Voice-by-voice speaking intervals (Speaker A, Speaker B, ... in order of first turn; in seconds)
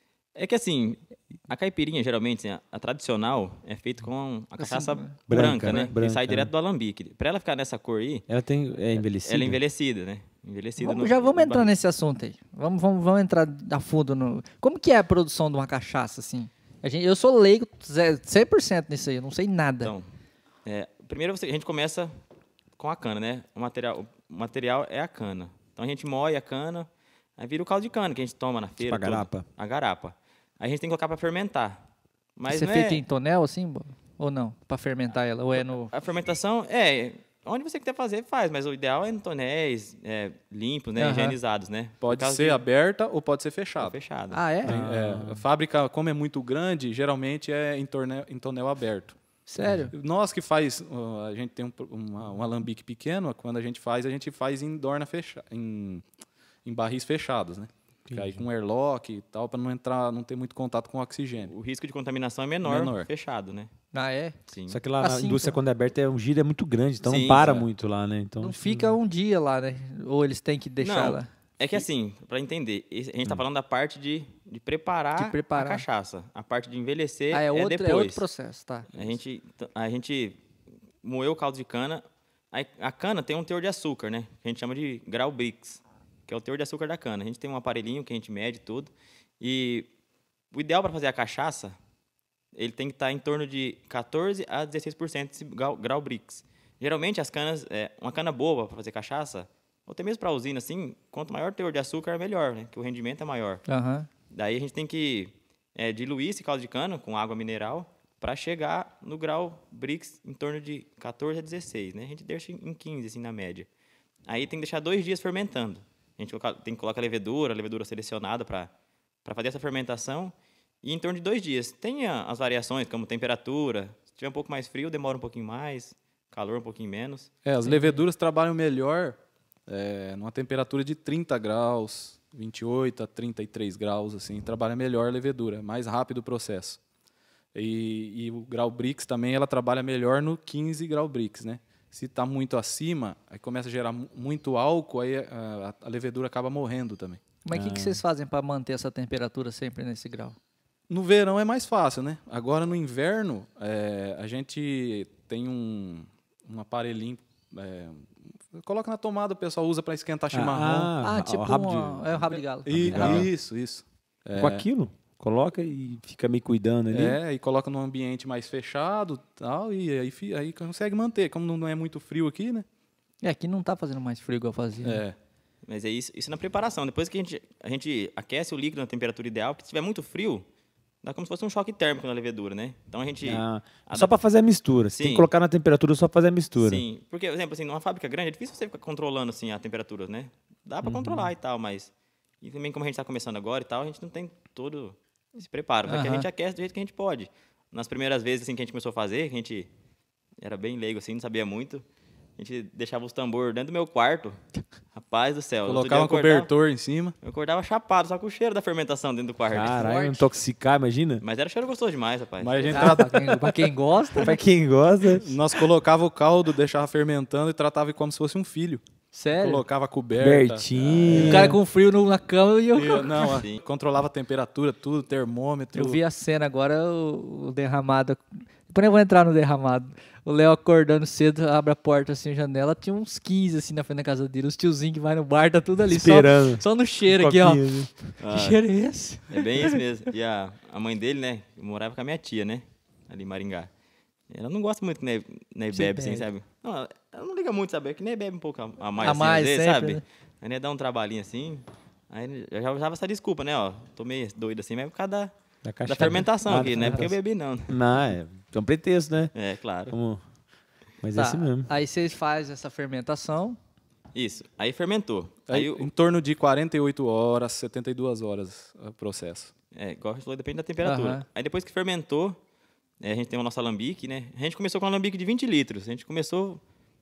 Speaker A: 0.3-8.2, 9.0-11.7, 20.6-22.1, 22.8-31.8, 32.4-33.0, 35.9-42.6, 43.8-44.4, 61.4-63.7, 64.5-64.8, 67.0-67.7, 70.8-78.2, 78.9-80.4, 81.0-89.9, 90.5-91.8, 92.5-103.6, 104.3-113.7, 114.3-118.7, 119.2-127.3, 175.7-180.4, 181.0-184.1, 184.9-185.3, 186.6-191.9, 192.4-199.7, 200.4-201.8, 202.4-204.4, 204.9-206.5, 207.2-209.9, 211.2-213.0, 223.2-223.6, 238.2-238.6, 239.3-243.7, 244.3-255.3, 255.8-257.8, 259.3-259.9, 264.1-265.9, 269.7-272.4, 273.0-276.6
Speaker B: 4.6-5.1, 10.8-19.9, 32.5-35.9, 41.0-41.4, 44.3-44.8, 49.5-49.9, 63.9-64.3, 65.0-65.6, 68.4-71.3, 75.2-75.8, 77.3-78.9, 103.7-104.1, 127.6-128.0, 147.4-150.3, 161.0-163.2, 173.2-175.0, 195.8-196.3, 209.7-210.3, 212.7-214.4, 219.1-219.6, 221.1-223.3, 225.7-239.8, 245.7-246.3, 249.0-250.0, 256.6-257.0, 261.1-263.6, 270.8-271.2
Speaker C: 5.3-6.5, 8.3-9.6, 28.8-29.4, 44.6-45.4, 58.1-58.4, 64.7-69.0, 147.5-148.0, 160.3-163.3, 164.4-167.2, 183.2-186.8, 190.8-191.3, 209.5-211.2, 214.2-215.4, 220.2-221.6, 235.9-237.9, 255.6-257.1, 257.7-259.3, 259.9-260.2, 261.0-261.7
Speaker D: 42.0-44.0, 44.6-49.2, 49.9-56.0, 56.6-61.5, 62.6-63.1, 127.4-136.8, 137.5-147.2, 150.9-160.9, 162.6-164.6, 166.9-172.7, 174.8-175.2, 205.6-207.1, 212.4-213.5, 215.1-218.8, 219.3-221.6, 222.7-226.0, 265.5-269.5